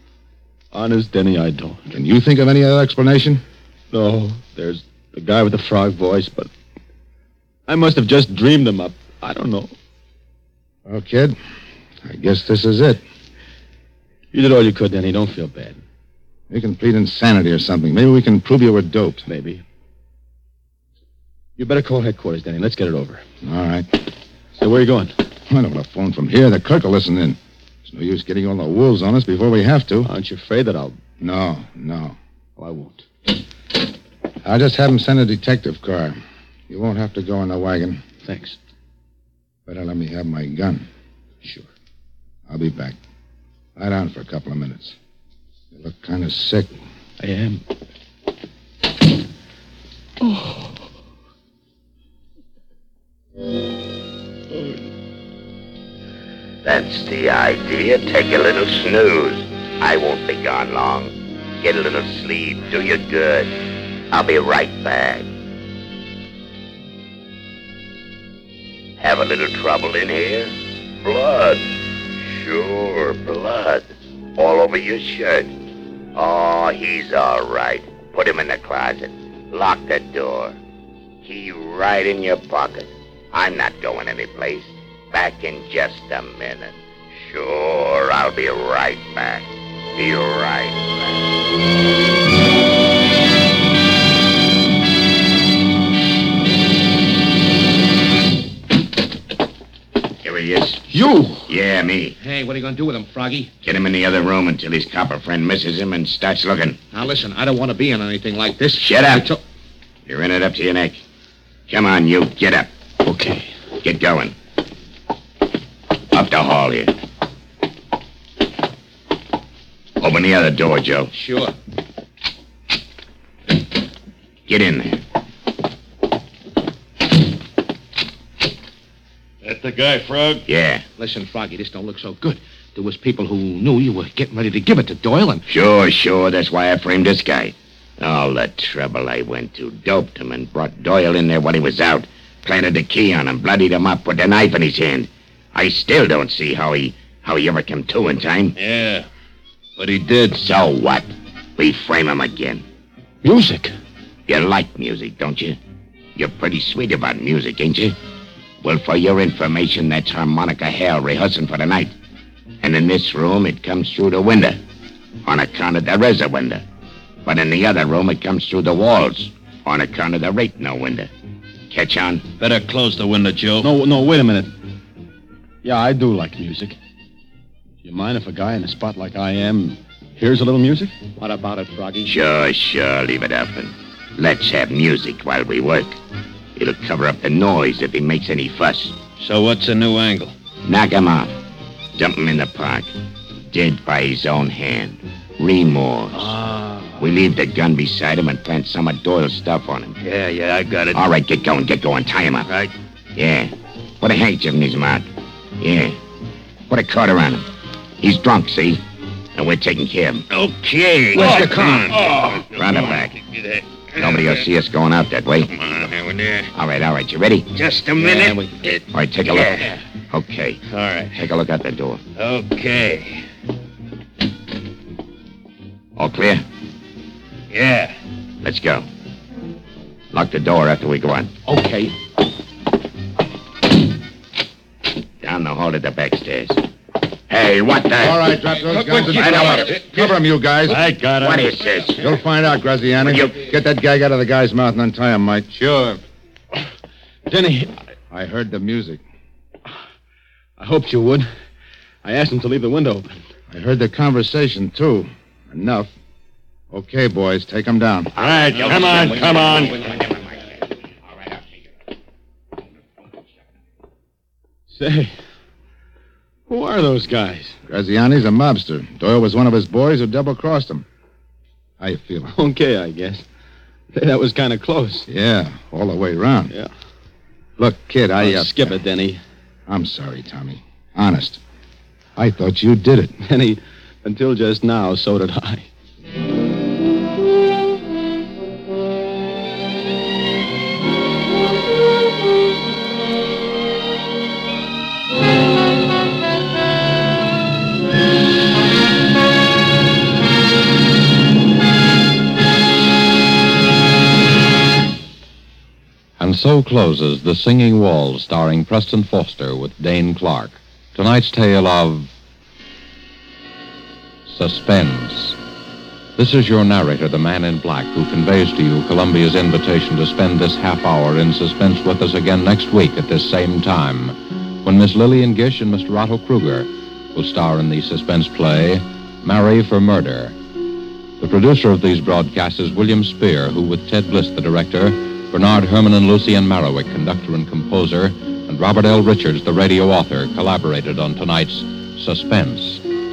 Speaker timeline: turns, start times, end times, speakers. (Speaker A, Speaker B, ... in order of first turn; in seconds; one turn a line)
Speaker A: 0.7-1.9
Speaker B: 1.9-3.4
Speaker A: 3.9-6.5
Speaker A: 7.7-9.8
Speaker B: 10.9-11.4
Speaker B: 12.0-13.0
Speaker A: 14.3-15.8
Speaker B: 16.5-19.3
Speaker A: 19.3-19.6
Speaker A: 21.6-23.2
Speaker B: 23.4-24.0
Speaker A: 24.6-25.1
Speaker B: 25.5-30.1
Speaker A: 30.1-31.0
Speaker B: 31.2-32.2
Speaker A: 32.6-33.0
Speaker B: 34.4-36.2
Speaker B: 36.7-38.0
Speaker A: 38.2-38.6
Speaker B: 39.7-40.9
Speaker A: 41.4-41.7
Speaker B: 42.5-43.0
Speaker B: 43.8-45.0
Speaker B: 45.7-46.8
Speaker A: 47.2-47.6
Speaker A: 50.2-50.7
Speaker C: 56.6-63.5
Speaker C: 64.1-65.3
Speaker C: 69.0-75.5
Speaker C: 76.1-80.6
Speaker C: 81.2-91.3
Speaker C: 100.2-102.1
Speaker A: 100.9-101.5
Speaker D: 102.2-103.5
Speaker C: 103.6-106.8
Speaker D: 106.9-109.4
Speaker C: 108.8-109.3
Speaker C: 110.1-111.0
Speaker C: 111.7-112.7
Speaker A: 113.0-113.5
Speaker C: 113.8-114.3
Speaker C: 116.1-116.9
Speaker C: 120.0-121.1
Speaker D: 121.1-121.5
Speaker C: 124.5-125.0
Speaker E: 129.4-130.4
Speaker C: 130.5-130.8
Speaker D: 131.0-135.4
Speaker C: 135.5-148.6
Speaker E: 148.6-149.1
Speaker E: 149.8-150.4
Speaker C: 150.3-152.6
Speaker A: 153.2-153.7
Speaker C: 154.3-155.6
Speaker C: 156.2-157.9
Speaker C: 158.6-161.9
Speaker C: 162.6-164.6
Speaker C: 165.2-166.6
Speaker C: 167.2-171.1
Speaker C: 171.7-172.3
Speaker E: 172.4-173.7
Speaker A: 173.6-174.5
Speaker A: 175.6-176.8
Speaker A: 177.8-180.9
Speaker D: 181.2-182.2
Speaker C: 182.1-186.0
Speaker C: 186.6-189.0
Speaker E: 189.2-190.3
Speaker C: 190.6-191.4
Speaker C: 191.9-192.9
Speaker C: 193.5-196.3
Speaker E: 196.1-197.0
Speaker C: 197.0-200.0
Speaker E: 200.0-201.1
Speaker C: 200.9-202.5
Speaker C: 203.1-206.0
Speaker C: 206.7-207.5
Speaker C: 208.0-208.8
Speaker C: 209.3-210.3
Speaker E: 210.3-214.4
Speaker D: 211.1-211.9
Speaker C: 211.1-211.6
Speaker C: 212.5-213.1
Speaker C: 214.0-215.6
Speaker E: 215.6-216.5
Speaker C: 216.5-217.5
Speaker E: 217.6-219.8
Speaker D: 217.9-218.7
Speaker C: 218.1-218.3
Speaker C: 218.9-220.6
Speaker E: 220.7-221.2
Speaker C: 221.1-222.0
Speaker E: 222.2-223.2
Speaker C: 226.0-226.4
Speaker E: 227.5-227.9
Speaker C: 228.4-228.9
Speaker C: 230.1-231.3
Speaker D: 231.4-231.9
Speaker C: 235.2-236.6
Speaker C: 237.3-238.3
Speaker B: 238.0-240.8
Speaker E: 238.6-241.7
Speaker C: 239.0-239.8
Speaker C: 241.2-242.1
Speaker B: 242.0-245.5
Speaker C: 243.1-243.3
Speaker E: 245.5-246.0
Speaker A: 247.3-247.8
Speaker B: 248.1-249.0
Speaker A: 250.6-251.3
Speaker A: 252.0-253.2
Speaker B: 253.5-255.9
Speaker B: 256.7-258.1
Speaker E: 258.1-260.0
Speaker C: 258.2-260.2
Speaker A: 264.7-265.1
Speaker A: 266.5-267.6
Speaker B: 267.7-270.9
Speaker B: 271.8-272.4
Speaker A: 272.4-273.2
Speaker A: 273.9-275.1
Speaker B: 275.1-276.5
Speaker B: 277.6-278.8
Speaker A: 278.2-279.2
Speaker B: 279.7-281.4
Speaker B: 282.1-283.2
Speaker A: 283.2-285.7
Speaker F: 306.2-312.1
Speaker F: 314.3-315.4
Speaker F: 316.1-330.4
Speaker F: 331.2-342.8